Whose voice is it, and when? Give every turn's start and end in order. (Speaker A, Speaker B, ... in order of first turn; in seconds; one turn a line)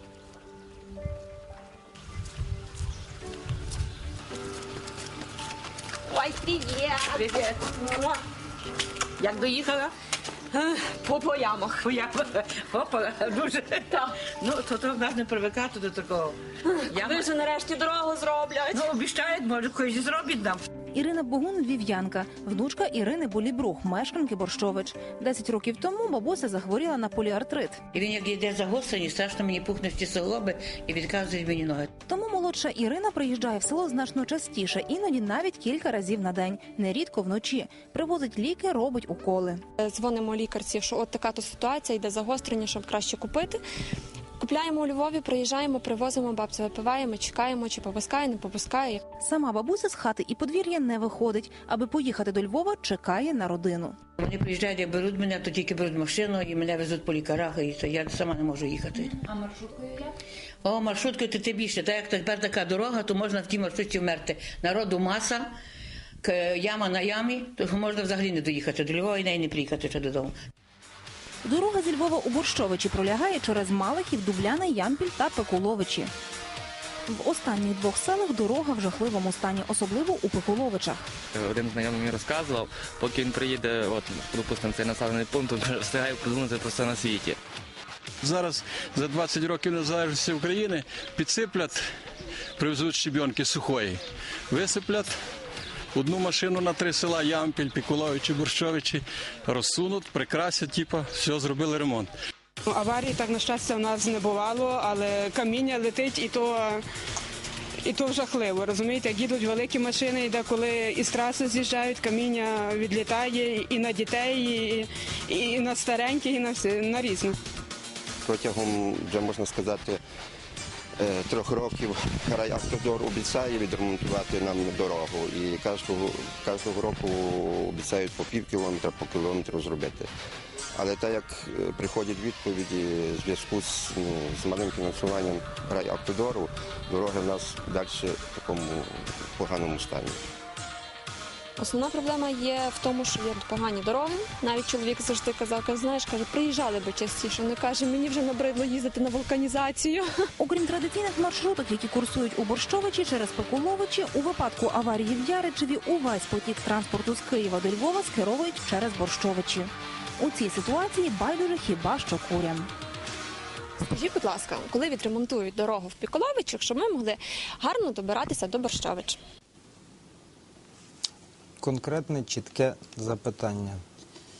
Speaker A: 9.2-9.6
Speaker A: 11.9-13.6
Speaker A: 14.4-16.3
Speaker A: 18.8-20.6
Speaker B: 20.9-27.8
Speaker A: 27.9-31.9
Speaker B: 32.1-39.6
Speaker C: 39.8-43.6
Speaker C: 44.4-49.0
Speaker B: 49.2-54.0
Speaker A: 54.2-60.0
Speaker A: 60.6-65.5
Speaker A: 66.2-70.3
Speaker B: 71.5-76.1
Speaker B: 77.1-81.0
Speaker D: 81.3-87.4
Speaker E: 88.2-91.9
Speaker E: 92.6-95.2
Speaker E: 95.9-102.1
Speaker F: 102.7-106.8
Speaker F: 107.8-117.4
Speaker G: 118.2-120.0
Speaker G: 121.0-130.1
Speaker G: 130.8-140.2
Speaker C: 141.6-150.1
Speaker B: 150.4-159.7
Speaker B: 160.2-162.7
Speaker C: 163.8-169.2
Speaker H: 171.6-173.8